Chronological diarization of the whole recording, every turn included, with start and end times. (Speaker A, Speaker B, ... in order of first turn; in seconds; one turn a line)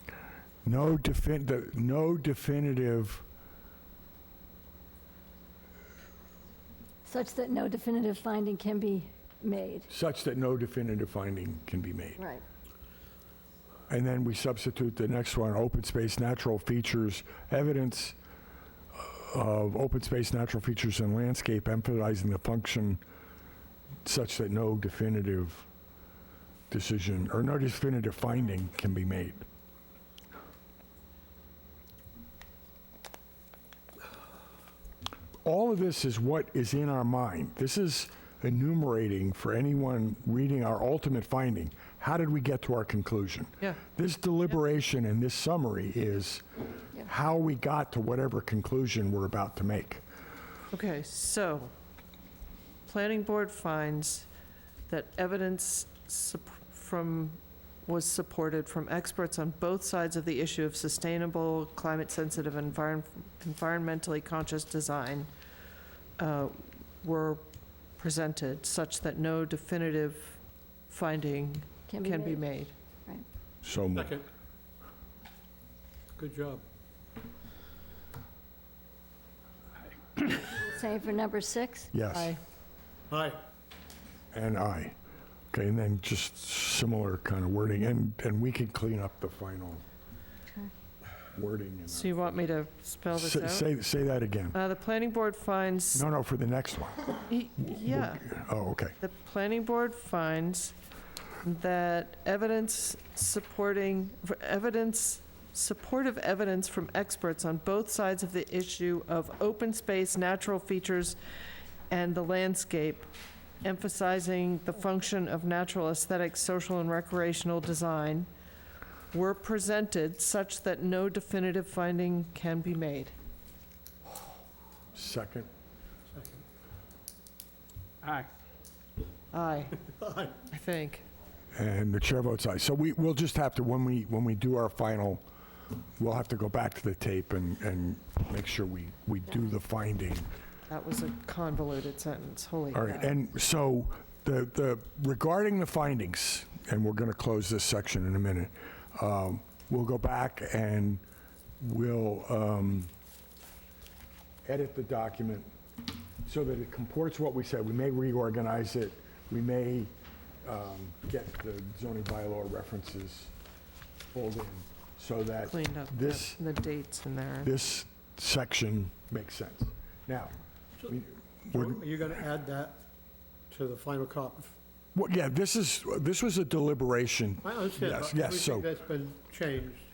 Speaker A: 0.7-3.2
Speaker B: 7.1-9.9
Speaker A: 9.9-12.2
Speaker B: 12.2-12.4
Speaker A: 13.9-18.2
Speaker A: 18.9-23.0
Speaker A: 24.1-25.7
Speaker A: 26.7-29.4
Speaker A: 35.4-46.4
Speaker A: 47.0-50.0
Speaker C: 50.7-51.7
Speaker C: 52.9-54.3
Speaker C: 54.9-65.3
Speaker C: 66.2-67.5
Speaker C: 68.0-72.7
Speaker B: 71.9-72.4
Speaker A: 73.6-74.2
Speaker D: 73.9-74.2
Speaker D: 76.2-76.6
Speaker B: 80.3-81.9
Speaker A: 81.9-82.4
Speaker C: 82.1-82.4
Speaker D: 83.1-83.4
Speaker A: 84.3-85.0
Speaker A: 85.5-89.8
Speaker A: 91.3-92.4
Speaker C: 91.9-93.7
Speaker A: 93.1-94.6
Speaker C: 94.5-96.0
Speaker A: 95.9-99.0
Speaker C: 97.3-98.4
Speaker C: 99.0-100.8
Speaker C: 101.4-111.2
Speaker C: 111.9-113.1
Speaker C: 113.6-118.3
Speaker C: 119.1-123.1
Speaker A: 124.9-125.5
Speaker C: 129.3-129.9
Speaker D: 130.0-130.3
Speaker C: 130.5-131.0
Speaker A: 131.6-135.2
Speaker A: 136.0-140.3
Speaker C: 140.7-143.2
Speaker A: 142.7-151.0
Speaker A: 151.6-152.9
Speaker A: 154.5-155.5
Speaker A: 156.2-159.9
Speaker A: 160.4-163.3
Speaker A: 164.1-166.4
Speaker C: 165.5-167.5
Speaker A: 167.4-170.3
Speaker A: 170.9-171.8
Speaker D: 171.5-172.8
Speaker D: 173.5-174.6
Speaker A: 174.9-178.7
Speaker D: 177.4-179.8